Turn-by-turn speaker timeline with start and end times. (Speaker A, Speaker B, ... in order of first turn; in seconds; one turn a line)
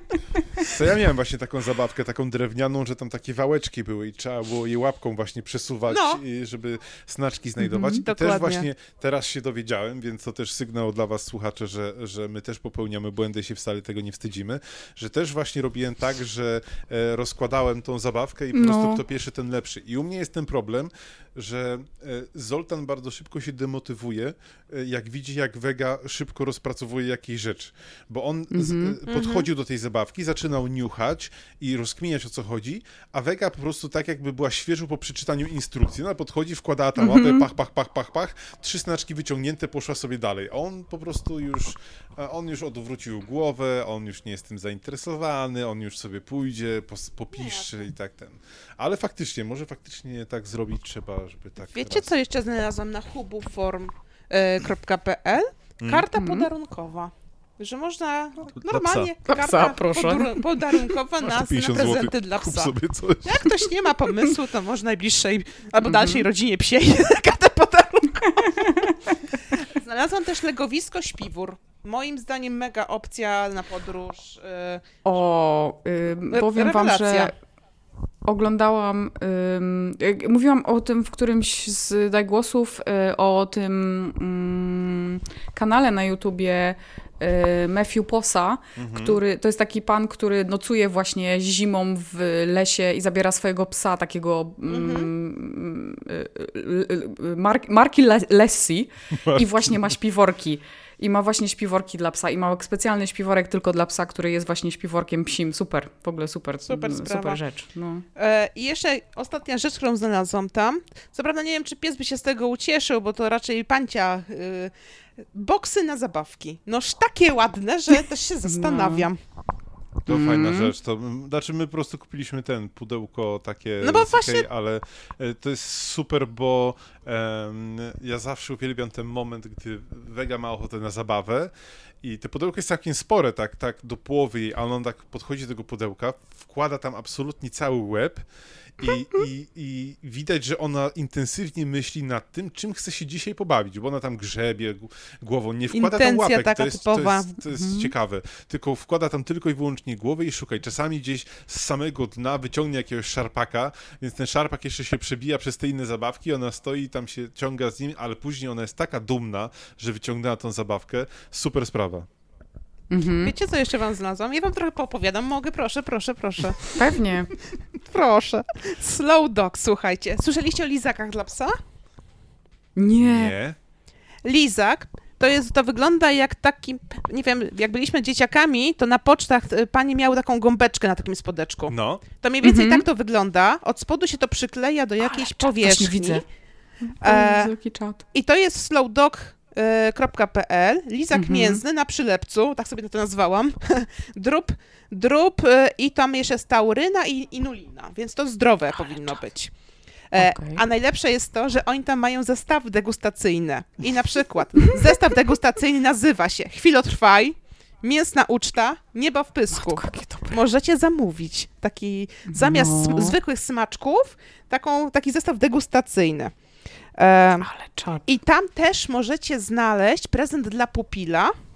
Speaker A: 0.6-52.1
Speaker B: 5.9-6.2
Speaker C: 7.6-8.0
Speaker B: 8.1-8.7
Speaker C: 18.5-19.0
Speaker C: 28.5-29.0
Speaker B: 29.1-29.5
Speaker C: 37.0-37.5
Speaker B: 47.3-47.7
Speaker B: 51.7-74.8
Speaker A: 55.8-56.1
Speaker C: 56.2-56.5
Speaker A: 58.6-59.1
Speaker C: 59.3-60.3
Speaker A: 61.2-63.5
Speaker C: 65.9-66.2
Speaker C: 68.4-69.0
Speaker C: 75.0-77.3
Speaker B: 76.3-77.3
Speaker C: 78.2-108.0
Speaker A: 88.8-89.2
Speaker B: 94.7-95.1
Speaker A: 99.1-99.9
Speaker B: 106.7-107.4
Speaker B: 108.2-114.7
Speaker B: 115.3-119.2
Speaker C: 118.5-119.1
Speaker A: 120.1-138.3
Speaker C: 120.1-120.7
Speaker B: 123.8-124.5
Speaker A: 138.8-162.1
Speaker B: 145.7-147.3
Speaker C: 147.5-147.9
Speaker C: 162.9-163.3
Speaker B: 163.2-166.8
Speaker C: 166.7-167.3
Speaker B: 167.8-171.6
Speaker C: 172.8-173.3
Speaker A: 173.0-173.6
Speaker B: 174.2-186.2
Speaker A: 181.7-182.0
Speaker C: 182.4-182.8
Speaker C: 185.2-186.2
Speaker C: 186.9-188.0
Speaker B: 187.0-187.5
Speaker B: 188.1-199.5
Speaker C: 191.2-191.6
Speaker B: 200.1-216.3
Speaker C: 200.2-200.6
Speaker C: 209.6-210.4
Speaker C: 212.3-213.2
Speaker B: 217.0-217.5
Speaker C: 217.4-218.1
Speaker B: 218.1-221.3